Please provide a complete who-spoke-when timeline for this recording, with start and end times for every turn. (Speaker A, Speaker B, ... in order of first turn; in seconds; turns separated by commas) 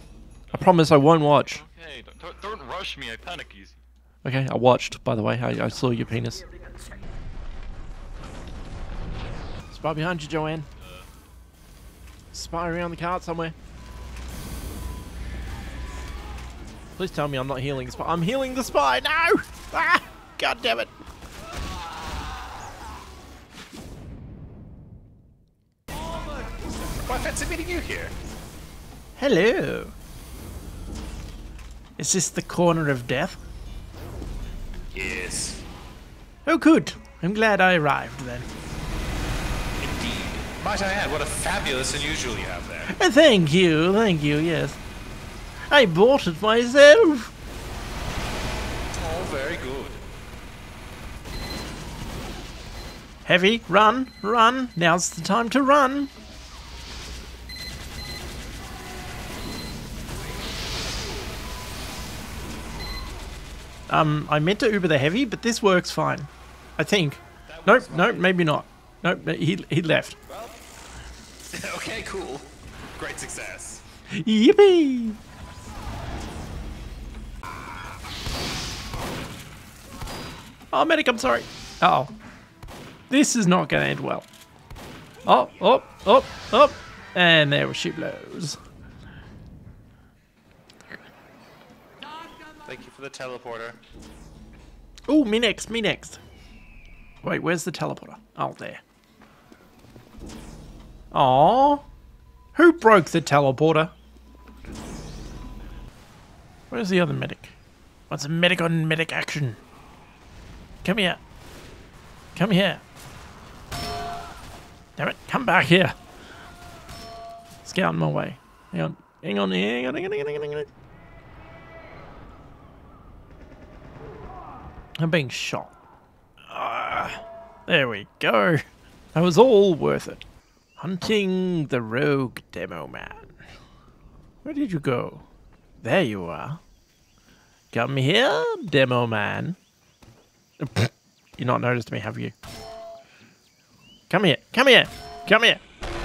Speaker A: 0.5-1.6, Speaker B: 1.4-3.8, Speaker A: 4.2-6.4, Speaker A: 9.7-10.7, Speaker A: 12.3-13.6, Speaker A: 17.0-20.9, Speaker C: 26.8-28.1, Speaker A: 29.2-29.9, Speaker A: 32.0-33.4, Speaker C: 34.9-35.6, Speaker A: 36.5-38.5, Speaker C: 39.8-42.9, Speaker A: 42.8-44.8, Speaker A: 45.7-47.3, Speaker C: 48.9-50.0, Speaker A: 53.2-56.1, Speaker A: 63.9-70.2, Speaker C: 67.5-68.3, Speaker C: 71.4-73.8, Speaker A: 74.1-75.2, Speaker A: 80.7-82.1, Speaker A: 83.1-84.3, Speaker A: 85.2-88.6, Speaker C: 92.6-93.8, Speaker A: 95.1-96.2, Speaker A: 97.2-98.8, Speaker A: 101.1-101.8, Speaker A: 102.5-103.9, Speaker A: 106.7-107.5, Speaker A: 108.1-109.6, Speaker A: 110.8-111.2, Speaker A: 112.3-112.8, Speaker A: 115.0-115.9, Speaker A: 117.6-120.7, Speaker A: 125.0-125.7, Speaker A: 126.5-130.2, Speaker A: 130.8-133.4, Speaker A: 134.4-135.2, Speaker A: 135.8-136.6, Speaker A: 137.7-139.6, Speaker A: 140.6-142.3, Speaker A: 144.1-145.6